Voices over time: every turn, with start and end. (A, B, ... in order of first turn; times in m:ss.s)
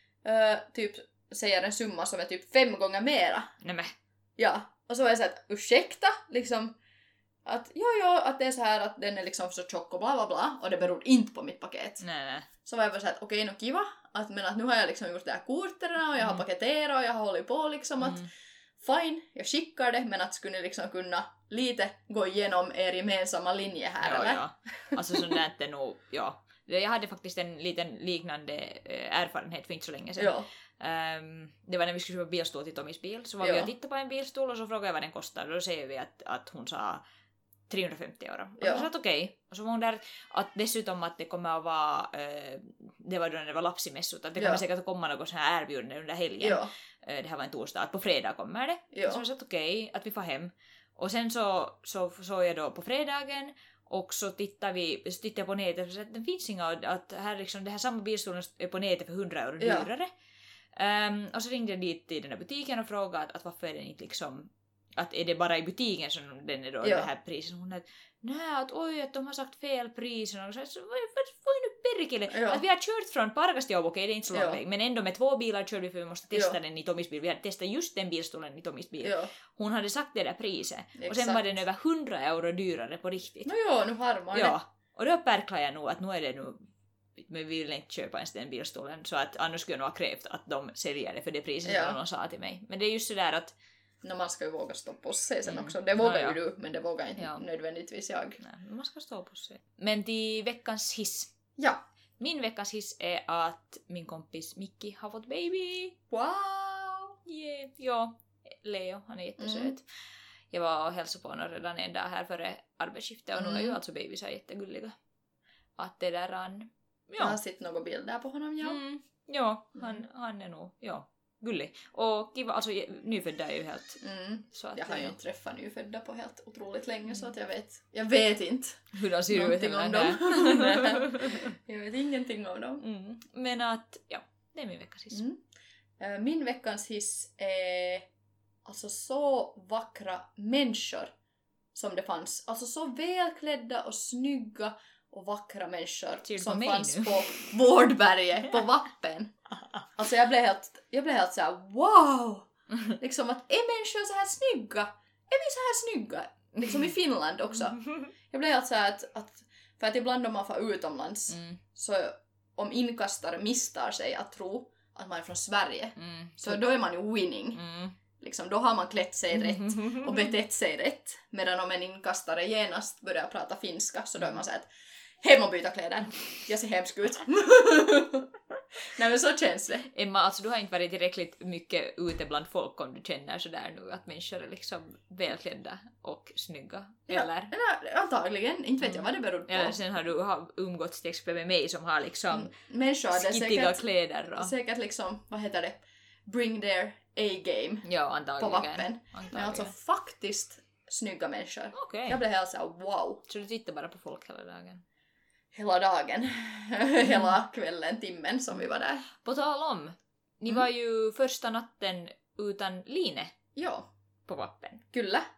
0:00.2-0:03.5 A
0:03.6-0:04.0 B
0:04.4-0:06.8 A
0:07.4-0:12.0 A
0:12.0-0:12.5 B
0:12.6-0:18.3 A
0:18.0-0:18.3 B
0:18.8-0:25.2 A
0:24.0-0:37.0 B
0:30.2-0:30.5 A
0:33.4-0:33.7 A
0:37.7-1:00.1 B
0:38.6-0:38.9 A
0:44.4-0:44.6 A
0:46.4-0:46.7 A
0:48.9-0:49.2 A
0:59.6-0:59.9 A
1:00.8-1:23.5 B
1:06.8-1:07.1 A
1:12.3-1:12.6 A
1:14.3-1:14.6 A
1:16.3-1:16.6 A
1:19.0-1:19.3 A
1:21.0-1:21.4 A
1:23.5-1:24.6 A
1:24.3-1:26.6 B
1:27.2-1:33.5 B
1:31.6-1:32.0 A
1:34.0-1:38.4 A
1:35.4-1:36.4 B
1:37.2-1:37.4 B
1:38.4-1:41.3 B
1:41.6-1:41.8 A
1:42.2-1:46.0 B
1:46.1-1:47.2 A
1:47.3-1:49.9 B
1:49.4-1:49.8 A
1:50.5-1:55.0 B
1:53.4-1:53.8 A
1:55.8-1:57.4 B
1:57.2-1:58.8 A
1:58.6-2:05.2 B
2:04.0-2:12.8 A
2:08.9-2:11.5 B
2:12.8-2:15.2 B
2:15.1-2:15.4 A
2:16.0-2:18.1 A
2:18.6-2:21.1 A
2:21.7-2:29.3 A
2:26.2-2:27.5 B
2:30.0-2:47.6 A
2:41.3-2:41.6 B
2:46.0-2:46.6 B
2:47.5-2:48.0 B
2:48.2-2:59.9 A
2:49.4-2:50.3 B
2:59.9-3:07.5 B
3:07.1-3:09.8 A
3:08.8-3:12.5 B
3:12.3-3:13.8 A
3:13.1-3:14.5 B
3:14.4-3:17.9 A
3:17.8-3:19.7 B
3:18.4-3:23.2 A
3:21.7-3:22.2 B
3:23.3-3:24.8 B
3:25.5-3:29.1 A
3:29.2-3:33.4 B
3:33.6-3:33.9 A
3:34.3-3:34.9 B
3:34.9-3:35.3 A